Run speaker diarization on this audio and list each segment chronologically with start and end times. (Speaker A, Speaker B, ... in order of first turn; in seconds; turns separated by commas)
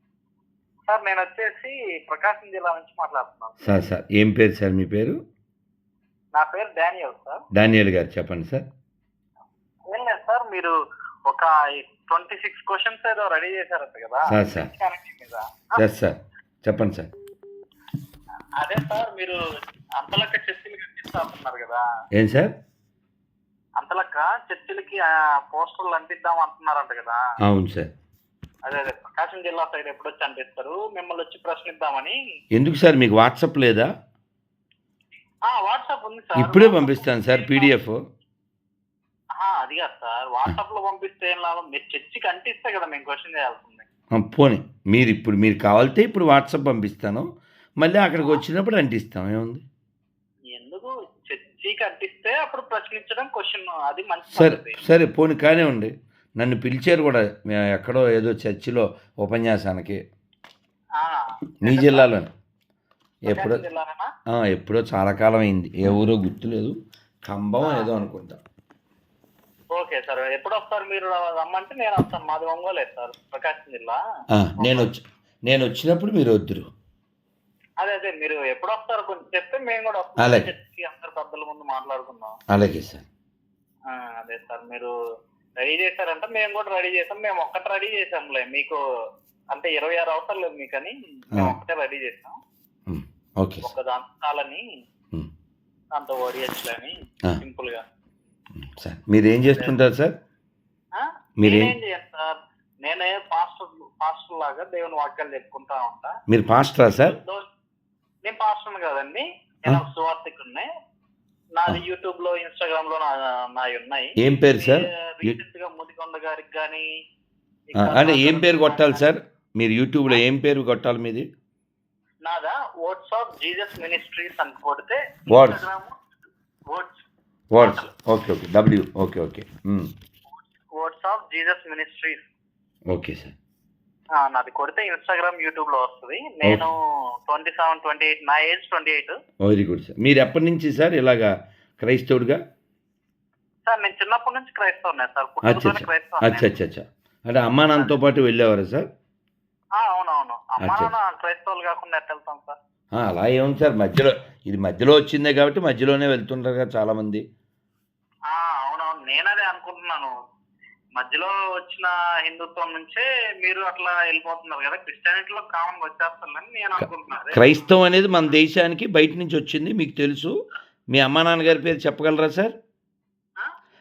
Speaker A: 0.9-3.8, Speaker B: 3.6-5.2, Speaker A: 6.3-7.4, Speaker B: 7.6-8.7, Speaker A: 9.9-10.7, Speaker A: 11.3-15.8, Speaker B: 14.3-14.7, Speaker B: 15.8-17.1, Speaker A: 18.6-19.4, Speaker A: 20.0-21.8, Speaker B: 22.2-22.5, Speaker A: 23.8-27.2, Speaker B: 27.5-27.9, Speaker A: 28.6-32.2, Speaker B: 32.5-33.9, Speaker A: 35.5-37.7, Speaker B: 36.4-38.0, Speaker A: 39.4-43.9, Speaker B: 44.1-47.3, Speaker B: 47.8-49.6, Speaker A: 50.5-54.8, Speaker B: 54.3-60.0, Speaker A: 61.0-62.1, Speaker B: 61.6-62.3, Speaker B: 63.2-63.6, Speaker A: 63.3-64.1, Speaker B: 64.3-66.8, Speaker B: 67.3-68.4, Speaker A: 67.6-67.9, Speaker A: 69.7-74.0, Speaker B: 74.4-76.7, Speaker A: 74.6-74.9, Speaker A: 77.8-82.3, Speaker B: 80.2-80.5, Speaker B: 82.5-83.1, Speaker A: 83.9-84.9, Speaker A: 85.6-88.8, Speaker A: 89.5-92.4, Speaker B: 92.9-93.7, Speaker A: 93.6-94.6, Speaker A: 96.0-97.8, Speaker B: 98.6-100.1, Speaker A: 99.5-99.7, Speaker A: 101.0-106.1, Speaker B: 101.4-101.7, Speaker B: 106.3-107.2, Speaker A: 106.9-107.5, Speaker A: 108.2-110.7, Speaker A: 111.6-116.9, Speaker B: 114.2-115.3, Speaker A: 117.7-119.1, Speaker B: 117.8-121.3, Speaker A: 122.2-126.0, Speaker B: 125.3-125.6, Speaker A: 126.7-127.1, Speaker B: 127.5-129.9, Speaker A: 127.6-127.9, Speaker A: 130.8-132.2, Speaker B: 132.9-133.3, Speaker A: 134.2-136.8, Speaker A: 137.3-139.2, Speaker B: 139.4-142.4, Speaker A: 143.7-146.5, Speaker B: 145.4-148.8, Speaker A: 149.8-152.6, Speaker B: 150.6-150.9, Speaker B: 153.0-157.2, Speaker A: 158.3-160.1, Speaker A: 161.0-168.4, Speaker B: 166.8-170.3, Speaker B: 170.9-172.5